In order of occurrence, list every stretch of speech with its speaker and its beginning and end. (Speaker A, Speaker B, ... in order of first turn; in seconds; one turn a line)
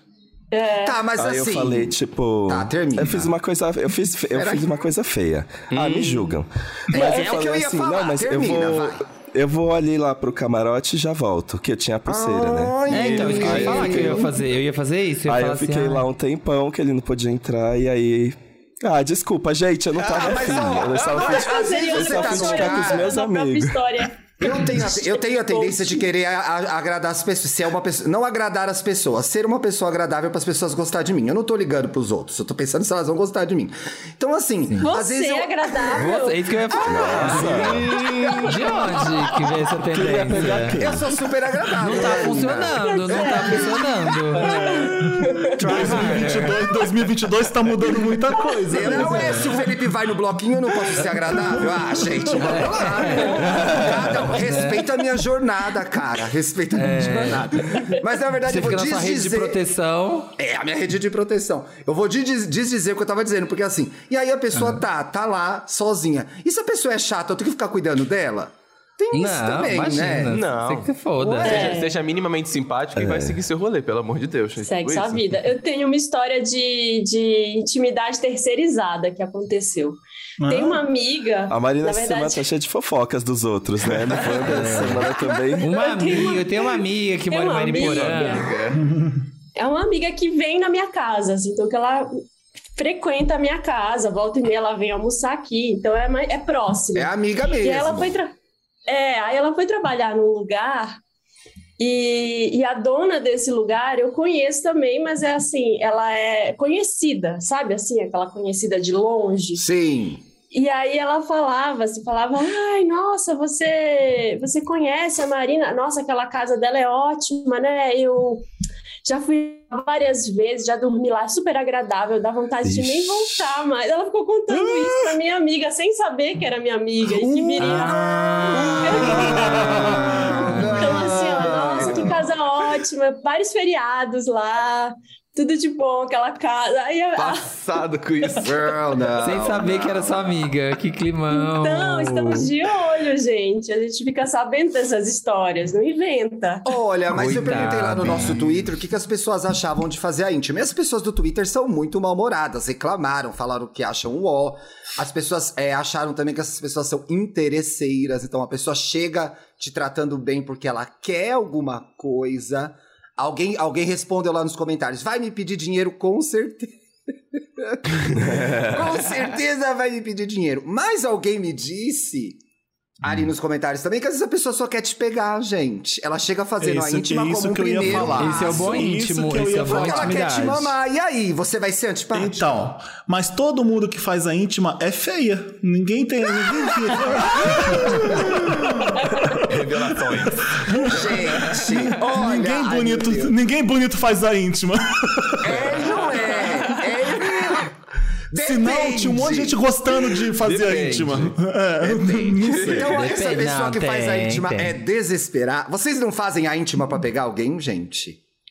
Speaker A: 0.5-1.0
Speaker B: 0.8-2.0
Speaker C: 1.2-14.3
Speaker B: 2.5-3.3
Speaker B: 4.3-4.7
Speaker D: 5.7-6.4
Speaker B: 6.9-9.0
Speaker A: 6.9-7.4
Speaker B: 12.1-14.3
Speaker E: 12.9-16.1
Speaker D: 12.9-13.6
Speaker C: 15.3-24.1
Speaker B: 20.0-23.1
Speaker A: 21.0-26.0
Speaker B: 24.4-36.0
Speaker A: 34.8-36.4
Speaker E: 35.9-40.8
Speaker B: 36.9-37.7
Speaker C: 36.9-37.9
Speaker D: 37.9-38.4
Speaker C: 39.9-41.0
Speaker B: 40.7-43.8
Speaker E: 41.8-44.5
Speaker A: 42.1-45.6
Speaker F: 44.4-49.5
Speaker E: 45.5-46.7
Speaker B: 48.7-59.6
Speaker E: 49.1-49.5
Speaker F: 51.7-52.4
Speaker E: 52.4-54.9
Speaker E: 56.7-57.9
Speaker E: 58.5-60.3
Speaker B: 60.4-70.4
Speaker E: 64.5-64.8
Speaker E: 69.1-71.8
Speaker D: 70.3-75.3
Speaker A: 71.4-72.0
Speaker C: 73.0-73.4
Speaker A: 74.6-82.5
Speaker F: 80.4-80.8
Speaker C: 81.5-85.7
Speaker A: 84.3-84.8
Speaker E: 84.4-85.1
Speaker E: 85.6-88.5
Speaker A: 85.6-86.8
Speaker A: 87.3-88.8
Speaker D: 87.7-88.8
Speaker F: 88.8-89.2
Speaker A: 89.6-98.3
Speaker B: 97.0-98.2
Speaker A: 98.9-101.0
Speaker A: 101.8-109.7
Speaker B: 109.5-110.2
Speaker A: 110.5-118.5
Speaker A: 119.0-137.5
Speaker E: 122.6-123.4
Speaker B: 127.6-132.3
Speaker E: 127.6-128.0
Speaker F: 129.1-130.4
Speaker D: 137.2-138.5
Speaker A: 138.2-138.5
Speaker B: 138.4-140.4
Speaker E: 139.2-142.5
Speaker A: 141.3-146.7
Speaker B: 146.7-166.8
Speaker E: 147.1-148.4
Speaker B: 167.6-172.4
Speaker C: 168.2-168.8
Speaker B: 173.0-182.4
Speaker F: 176.6-180.2
Speaker E: 177.9-180.8
Speaker F: 182.1-189.0
Speaker D: 187.4-191.9
Speaker B: 187.7-188.6
Speaker A: 189.0-189.3
Speaker F: 189.9-191.0
Speaker B: 190.7-193.4
Speaker F: 192.0-195.7
Speaker B: 195.4-197.8
Speaker D: 195.5-197.3
Speaker B: 198.3-199.6
Speaker F: 198.4-203.1
Speaker D: 200.4-201.4
Speaker B: 201.8-208.2
Speaker D: 202.3-203.0
Speaker E: 202.9-204.8